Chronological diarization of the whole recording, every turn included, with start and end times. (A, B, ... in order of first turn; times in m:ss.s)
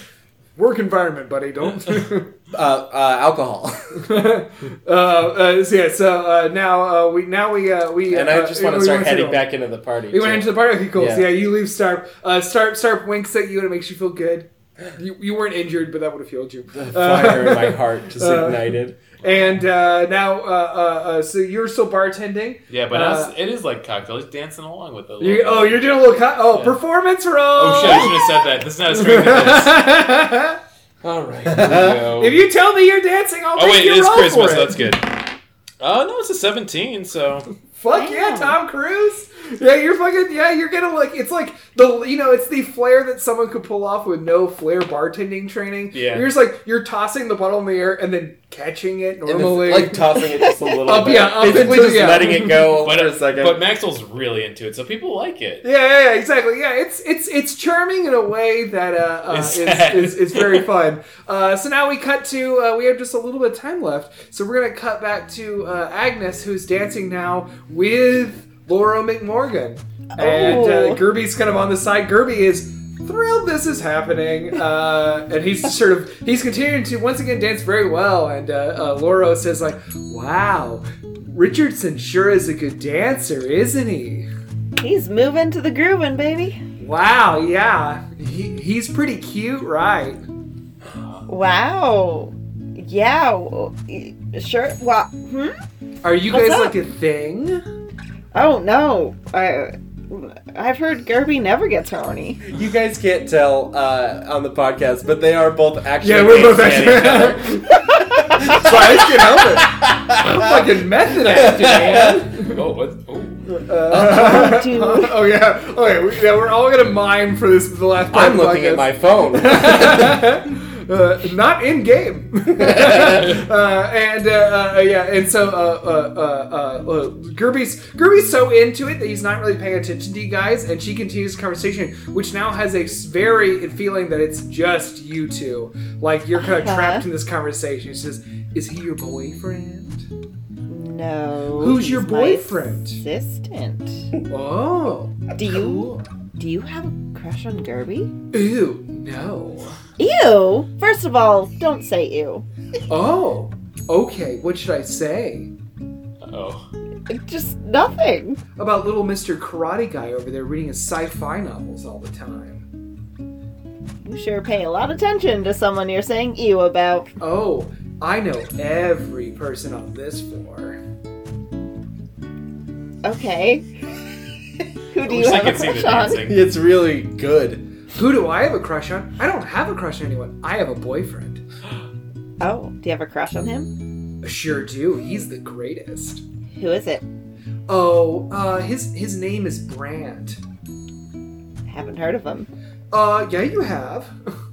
0:00.6-0:02.3 A
0:02.5-0:04.0 B
0:04.0-0:09.4 A
0:08.1-0:11.4 B
0:10.1-0:23.3 A
0:16.7-0:19.0 B
0:22.7-0:26.8 C
0:25.2-0:30.6 A
0:27.5-0:29.9 C
0:31.0-0:32.1 B
0:31.4-0:32.4 C
0:32.2-0:34.8 A
0:33.5-0:35.2 C
0:35.8-0:37.5 C
0:37.7-0:50.3 A
0:37.9-0:38.6 D
0:45.9-0:46.3 C
0:49.2-0:53.6 B
0:50.8-0:52.7 A
0:51.3-0:55.6 C
0:55.6-1:24.3 A
0:59.3-1:00.7 C
1:10.2-1:11.1 D
1:24.8-1:26.6 D
1:26.8-1:30.2 A
1:31.3-1:35.6 D
1:36.0-1:37.6 A
1:36.3-1:36.7 D
1:38.3-1:42.4 D
1:42.4-1:52.3 B
1:46.0-1:52.5 A
1:46.8-1:47.3 C
1:52.4-1:53.4 C
1:53.5-2:20.1 A
1:53.9-1:55.1 D
1:54.1-1:54.5 B
1:58.1-2:00.3 B
2:02.5-2:03.4 B
2:16.3-2:17.0 D
2:20.7-2:24.1 D
2:21.6-2:23.0 A
2:24.3-2:26.0 A
2:25.3-2:28.1 D
2:28.3-2:29.7 A
2:30.0-2:32.4 D
2:32.9-2:35.5 A
2:36.2-2:36.7 C
2:37.1-2:38.4 D
2:38.6-2:42.6 A
2:44.0-2:47.1 D
2:47.2-2:50.8 A
2:53.0-2:53.7 D
2:54.9-2:56.2 D
2:55.0-2:56.4 C
2:56.2-2:57.7 B
2:57.9-3:01.4 A
3:02.4-3:03.7 D
3:04.2-3:06.2 A
3:06.5-3:07.0 D
3:07.7-3:10.4 A
3:11.7-3:12.5 D
3:12.9-3:14.2 A